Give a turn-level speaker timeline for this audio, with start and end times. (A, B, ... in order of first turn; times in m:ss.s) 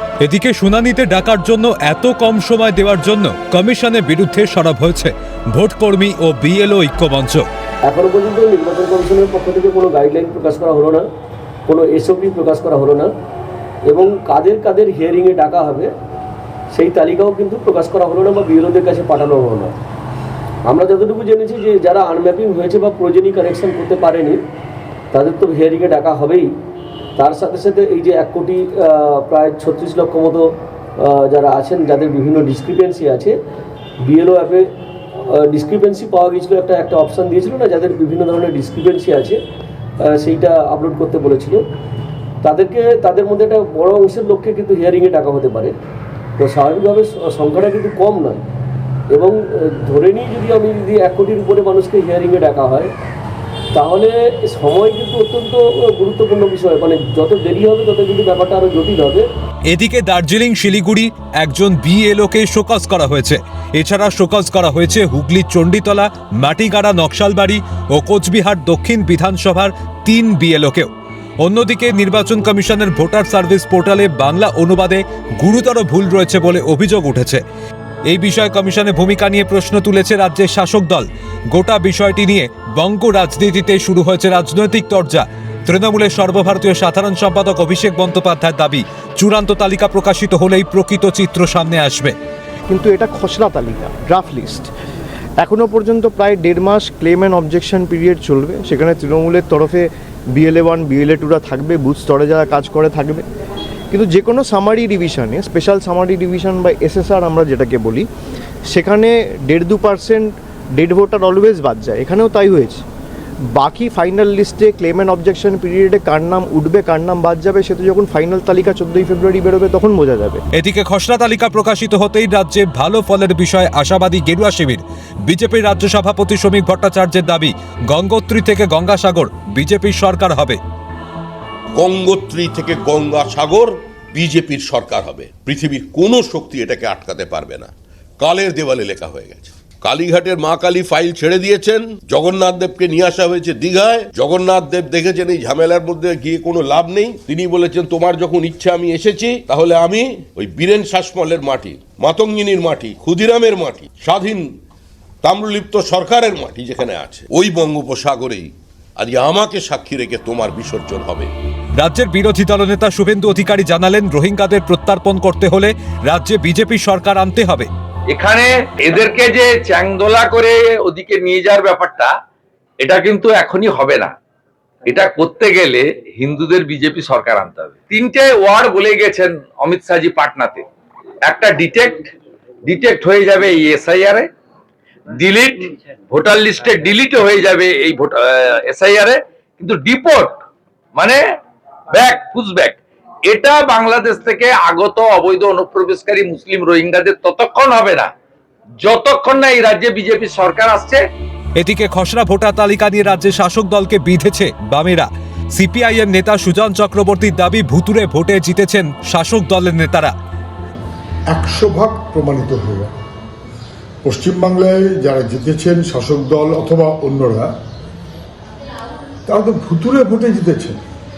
0:00.2-0:07.5 A
0:07.8-0:11.0 B
0:11.7-0:13.1 B
0:13.9-0:15.9 B
0:16.7-0:19.7 B
0:20.7-0:24.4 B
0:25.1-0:26.5 B
0:27.2-0:33.4 B
0:34.0-0:39.4 B
0:40.0-0:41.6 B
0:42.4-0:45.8 B
0:46.4-0:48.4 B
0:49.1-0:52.9 B
0:53.7-0:59.3 B
0:59.7-1:10.9 A
1:11.4-1:17.4 A
1:18.1-1:32.2 A
1:32.7-1:34.7 C
1:35.4-1:43.2 C
1:43.9-1:48.1 C
1:48.7-1:52.8 C
1:53.5-2:00.4 C
2:00.6-2:10.6 A
2:11.8-2:34.5 D
2:35.2-2:41.3 D
2:41.8-2:47.7 A
2:48.1-2:52.1 E
2:52.8-2:54.1 E
2:54.9-3:00.6 E
3:01.3-3:02.1 E
3:02.6-3:04.3 E
3:05.2-3:10.4 E
3:11.9-3:18.1 E
3:18.8-3:21.0 E
3:21.6-3:30.1 A
3:31.3-3:32.9 F
3:34.0-3:37.5 F
3:39.3-3:40.8 F